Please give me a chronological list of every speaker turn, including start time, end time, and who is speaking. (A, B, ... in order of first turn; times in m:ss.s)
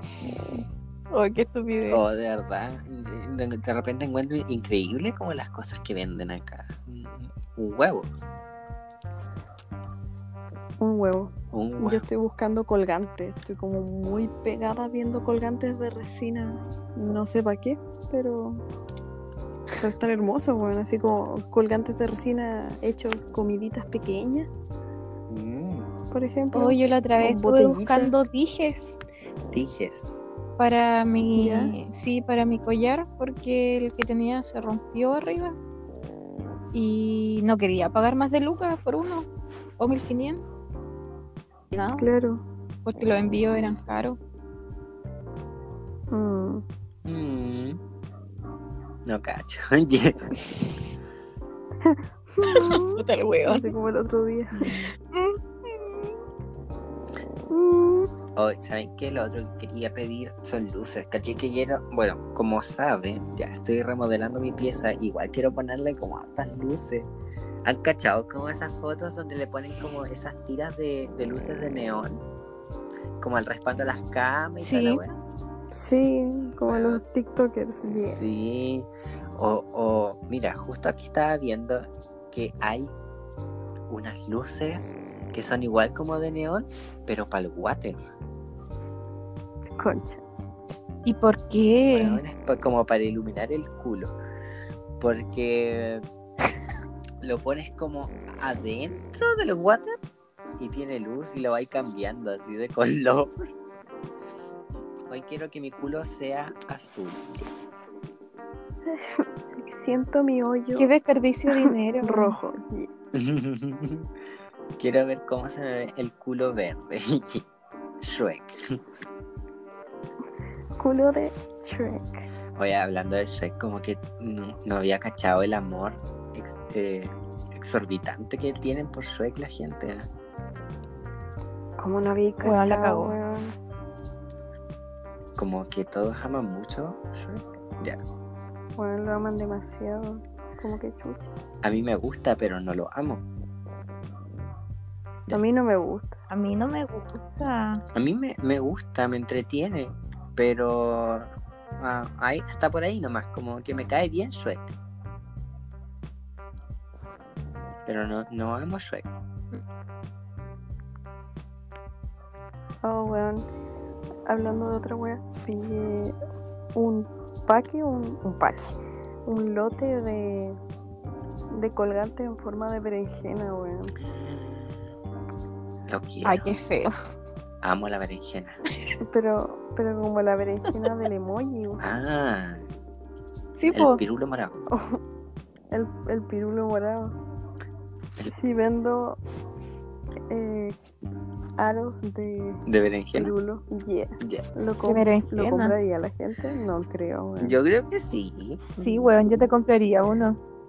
0:01.1-0:02.0 A
0:01.8-0:08.1 B
0:10.8-0:18.6 C
0:11.5-0:12.1 B
0:19.8-0:24.5 C
0:25.3-0:25.9 B
0:26.1-0:28.1 C
0:26.5-0:29.0 A
0:29.5-0:30.2 B
0:30.6-0:35.6 A
0:31.4-0:31.8 C
0:36.7-0:39.3 A
0:39.8-0:40.4 A
0:41.7-0:42.1 A
0:41.9-0:42.4 C
0:42.9-0:44.2 A
0:46.1-0:46.6 C
0:47.0-0:47.8 B
0:49.1-0:50.3 B
0:50.4-0:50.9 A
0:51.8-0:54.8 C
0:52.4-0:53.7 A
0:54.6-0:56.1 A
0:57.5-0:58.1 C
0:58.4-1:07.1 B
1:07.6-1:12.2 B
1:13.2-1:15.2 B
1:14.6-1:15.0 A
1:15.7-1:18.2 C
1:16.7-1:17.1 B
1:18.1-1:22.9 B
1:23.9-1:28.0 B
1:29.8-1:30.2 C
1:31.0-1:32.2 A
1:31.9-1:34.1 B
1:35.0-1:36.0 B
1:37.2-1:40.0 B
1:40.6-1:43.5 B
1:44.7-1:47.5 B
1:48.9-1:50.9 C
1:50.8-1:52.4 A
1:51.5-1:52.9 C
1:53.1-1:54.1 B
1:54.8-1:57.5 B
1:58.0-1:58.8 B
2:00.8-2:02.2 C
2:02.6-2:10.1 B
2:11.8-2:13.5 C
2:12.4-2:13.2 A
2:15.4-2:18.0 B
2:18.8-2:21.3 C
2:21.6-2:23.2 B
2:25.3-2:26.2 C
2:26.3-2:27.8 A
2:27.9-2:34.7 B
2:37.9-2:39.1 B
2:42.8-2:43.4 C
2:44.3-2:46.2 C
2:46.8-2:50.6 C
2:51.5-2:54.0 C
2:54.0-2:55.0 B
2:55.9-2:56.5 B
2:56.2-2:56.9 A
2:57.6-2:58.6 B
2:59.1-3:01.8 C
3:01.8-3:02.7 B
3:03.6-3:04.0 A
3:03.7-3:04.6 B
3:04.7-3:05.0 C
3:05.7-3:07.2 C
3:08.2-3:09.2 C
3:10.3-3:10.8 C
3:11.6-3:12.6 C
3:12.7-3:13.3 B
3:13.1-3:17.6 C
3:14.8-3:15.7 A
3:17.4-3:18.6 B
3:18.6-3:20.4 A